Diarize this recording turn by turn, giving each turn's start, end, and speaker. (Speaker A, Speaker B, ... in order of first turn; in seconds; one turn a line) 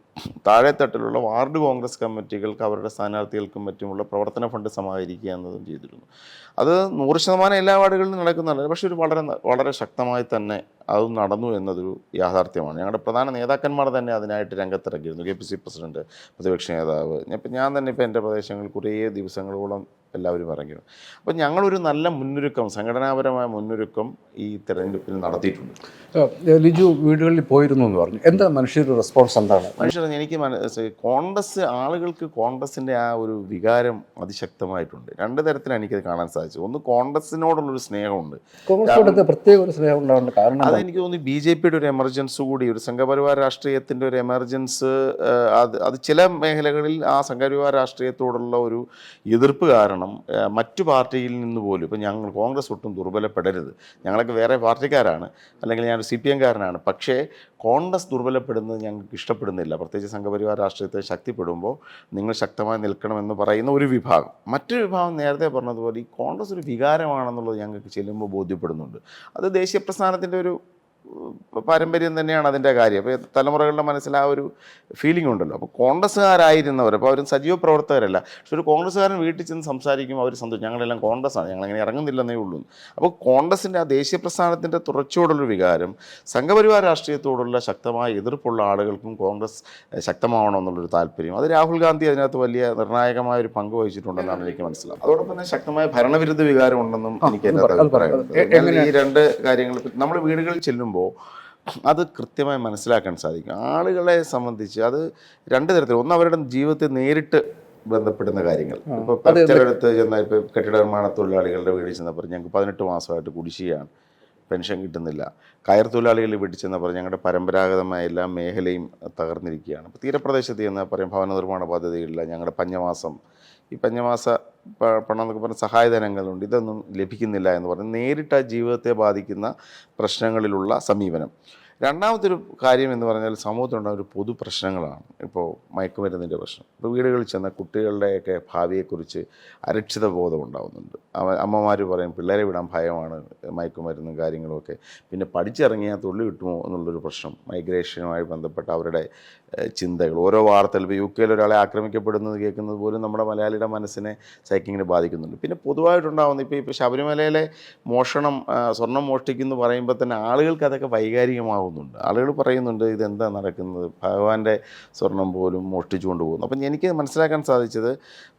Speaker A: 0.4-6.1
Speaker A: 6.6-25.8
Speaker B: 26.1-29.9
Speaker A: 29.8-39.2
Speaker B: 38.7-40.8
Speaker A: 40.6-70.6
Speaker A: 71.1-74.5
Speaker A: 75.0-101.1
Speaker B: 97.2-98.9
Speaker A: 101.9-113.9
Speaker B: 108.9-109.7
Speaker A: 114.5-123.2
Speaker A: 123.7-131.3
Speaker A: 131.8-149.1
Speaker A: 149.8-167.9